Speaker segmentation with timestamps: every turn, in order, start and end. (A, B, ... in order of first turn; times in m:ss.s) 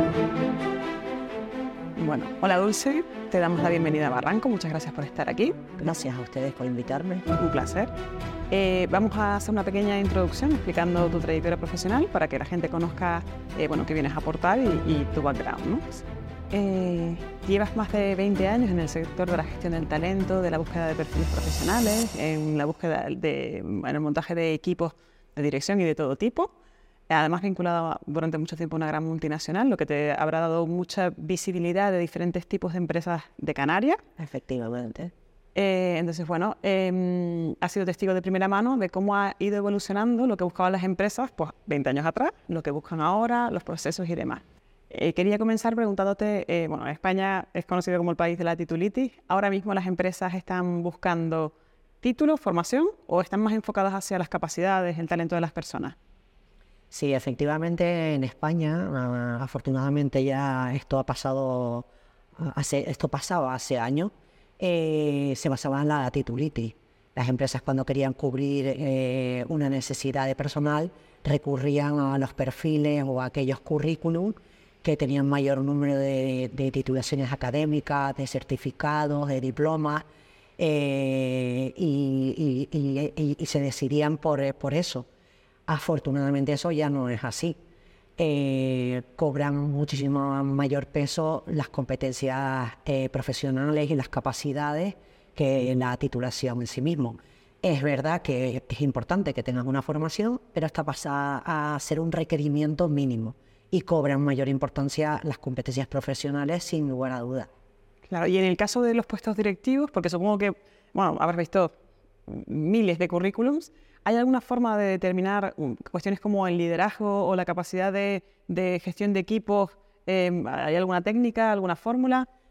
0:02.0-0:05.6 A
0:05.8-0:07.3 B
0:07.3-0:07.9 A
0:08.5-0:26.5 A
0:27.1-0:34.0 A
0:34.2-0:35.1 B
0:35.6-0:56.0 A
0:56.9-1:01.9 B
1:02.4-1:20.0 B
1:20.6-1:25.1 B
1:25.7-1:27.6 B
1:28.2-1:47.5 B
1:48.1-1:51.7 A
1:52.3-2:02.3 A